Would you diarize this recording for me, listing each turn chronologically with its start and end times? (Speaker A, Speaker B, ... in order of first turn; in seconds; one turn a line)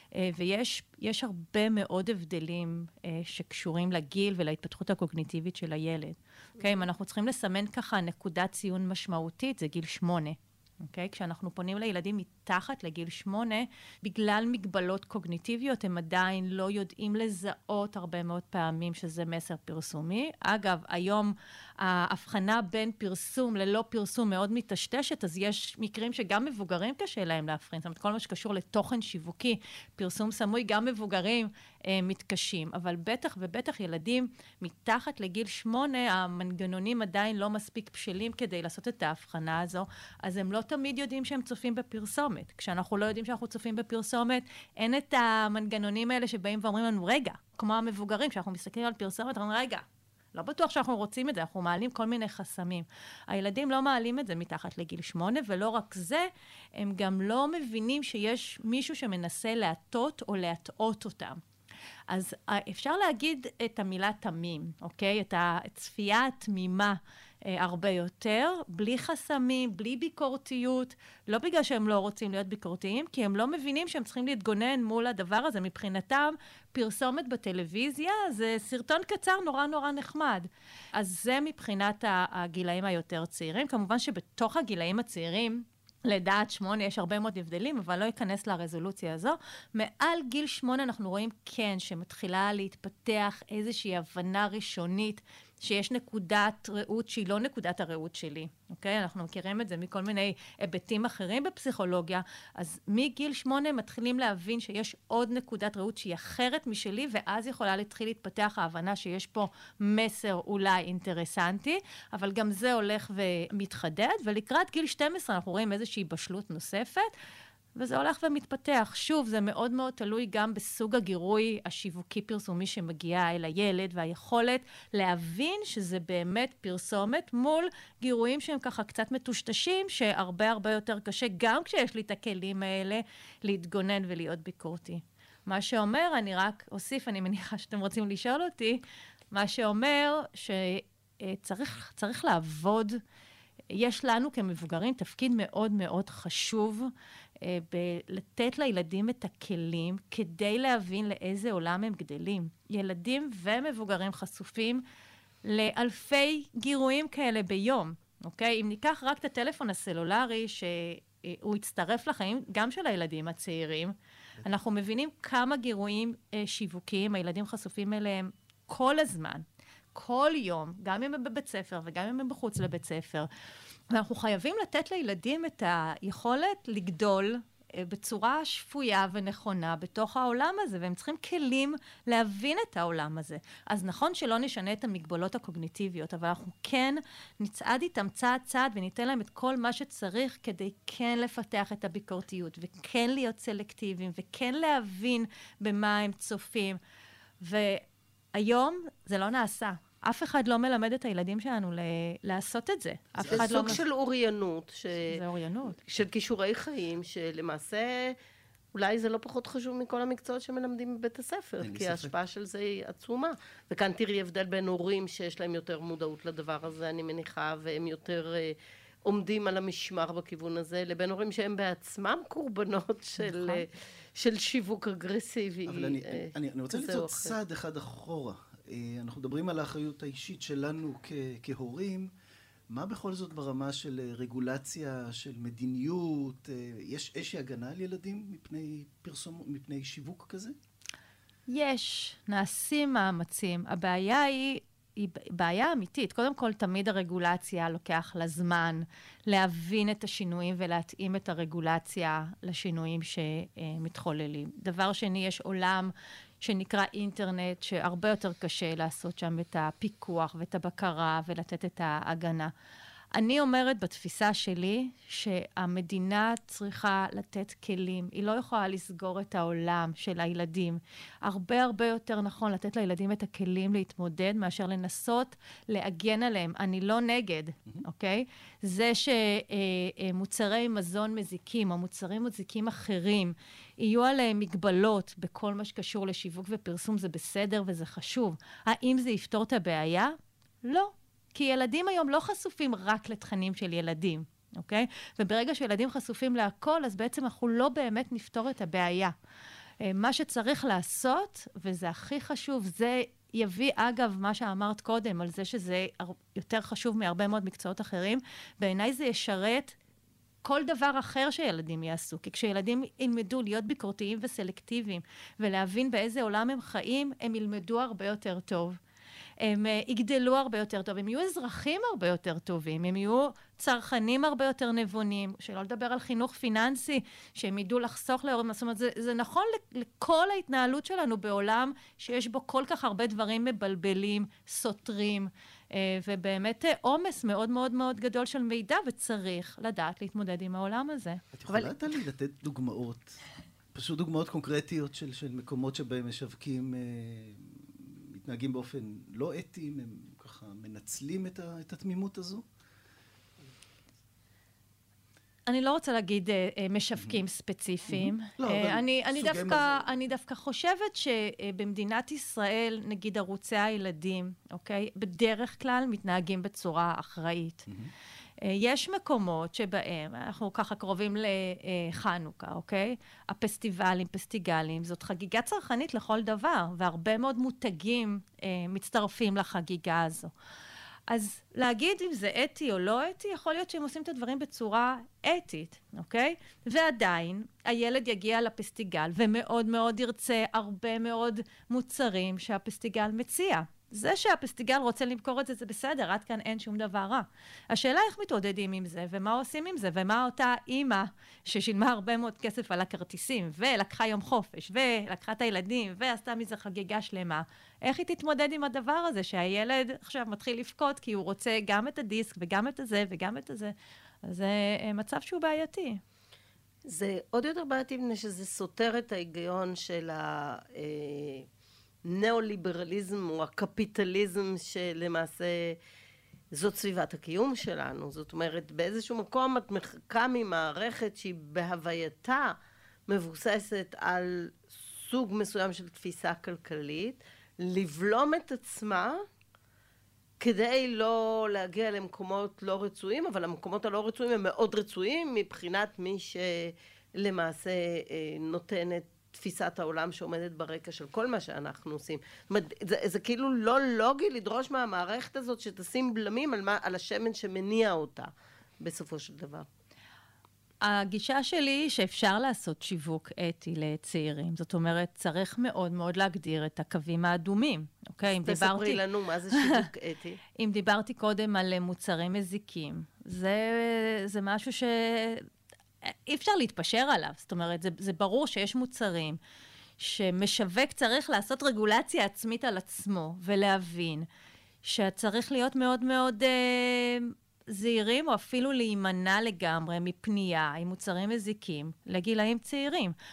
Speaker A: 0.1-61.4
Speaker A: 62.1-117.1
Speaker A: 117.8-143.0
Speaker A: 143.7-154.8
Speaker A: 155.4-173.3
Speaker A: 173.9-196.8
Speaker A: 197.4-203.8
Speaker B: 203.2-203.8
Speaker C: 203.3-205.2
Speaker A: 205.1-205.8
Speaker C: 205.8-208.2
Speaker C: 208.7-227.3
Speaker B: 211.6-212.1
Speaker A: 223.2-223.6
Speaker B: 225.7-232.1
Speaker B: 232.7-240.6
Speaker A: 241.5-262.5
Speaker A: 263.1-299.1
Speaker A: 299.8-309.8
Speaker A: 310.4-318.8
Speaker A: 319.4-341.2
Speaker B: 341.3-343.2
Speaker C: 341.5-341.8
Speaker B: 343.7-352.4
Speaker A: 355.5-367.7
Speaker B: 357.9-359.9
Speaker A: 368.4-380.3
Speaker A: 381.1-413.7
Speaker A: 414.2-416.0
Speaker C: 416.8-421.5
Speaker C: 422.0-425.8
Speaker C: 426.5-432.6
Speaker C: 433.1-439.2
Speaker C: 440.4-459.6
Speaker A: 460.8-469.0
Speaker C: 468.4-470.4
Speaker A: 469.5-469.8
Speaker A: 470.6-475.4
Speaker A: 476.0-479.4
Speaker A: 480.0-484.3
Speaker A: 484.8-493.1